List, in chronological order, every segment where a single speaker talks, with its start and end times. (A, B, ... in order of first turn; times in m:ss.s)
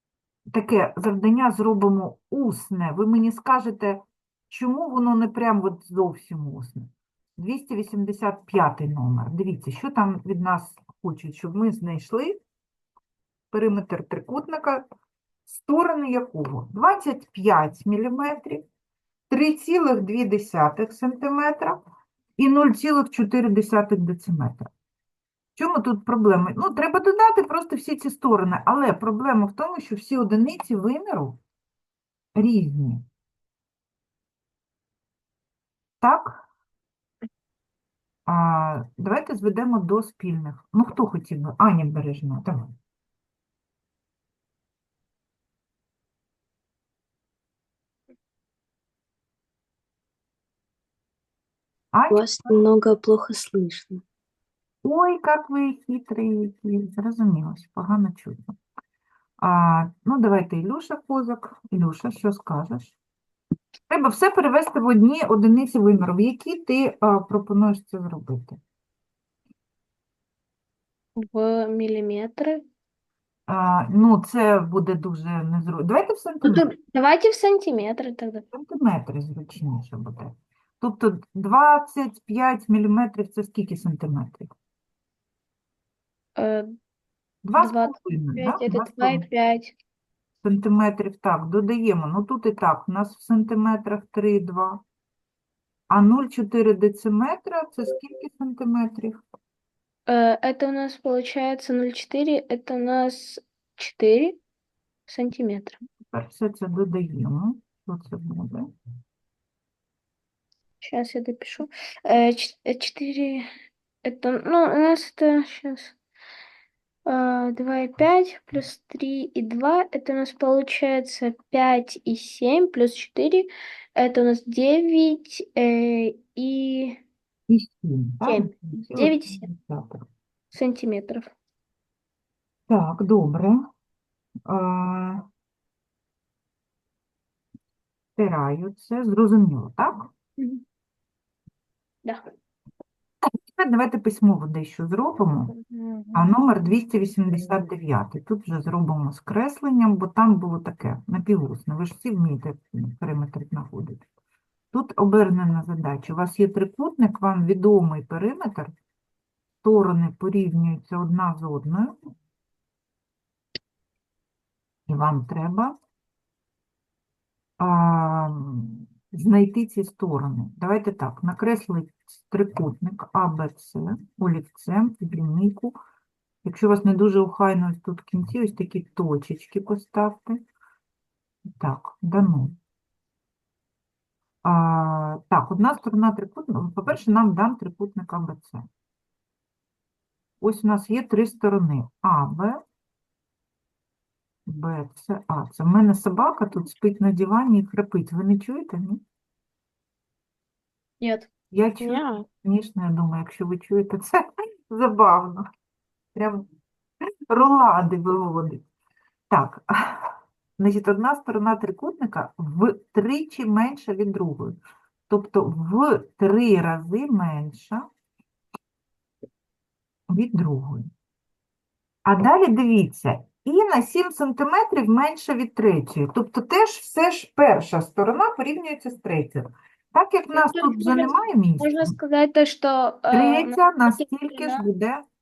0:00.5-0:12.4 A
0:13.5-0:14.8 A
0:15.5-0:18.6 A
0:19.3-0:21.8 A
0:22.4-0:24.7 A
0:25.6-0:31.4 A
0:32.3-0:33.0 A
0:36.0-0:36.4 A
0:38.3-0:42.7 A
0:51.9-0:52.6 A
0:52.1-0:54.0 B
0:54.8-0:58.6 A
0:59.4-1:03.0 A
1:03.9-1:08.6 A
1:11.2-1:12.6 C
1:13.5-1:16.6 A
1:16.4-1:18.4 C
1:18.5-1:24.5 A
1:26.4-1:26.7 C
1:27.4-1:29.2 A
1:27.6-1:29.7 C
1:30.4-1:34.8 A
1:35.9-1:39.2 A
1:40.1-1:44.4 C
1:45.1-1:45.8 C
1:46.1-1:48.7 A
1:50.8-1:53.5 C
1:54.0-1:55.9 C
1:57.0-2:07.0 C
2:07.5-2:10.0 A
2:08.2-2:09.5 C
2:10.5-2:11.3 C
2:12.7-2:13.6 A
2:14.4-2:15.2 A
2:18.2-2:20.1 A
2:20.4-2:20.6 C
2:23.5-2:25.5 A
2:25.5-2:26.3 C
2:26.1-2:34.0 A
2:34.7-2:38.7 A
2:39.6-2:41.9 A
2:44.9-2:45.7 A
2:47.6-2:55.8 A
2:56.4-3:00.4 A
3:01.6-3:02.6 A
3:04.4-3:08.6 A
3:10.4-3:12.6 A
3:14.5-3:19.0 A
3:21.0-3:21.3 C
3:21.5-3:25.4 A
3:21.8-3:22.2 C
3:26.1-3:26.5 A
3:27.3-3:28.6 A
3:29.3-3:34.6 A
3:35.1-3:37.8 A
3:40.1-3:40.9 A
3:42.0-3:52.0 A
3:50.3-3:54.6 C
3:53.1-3:55.0 A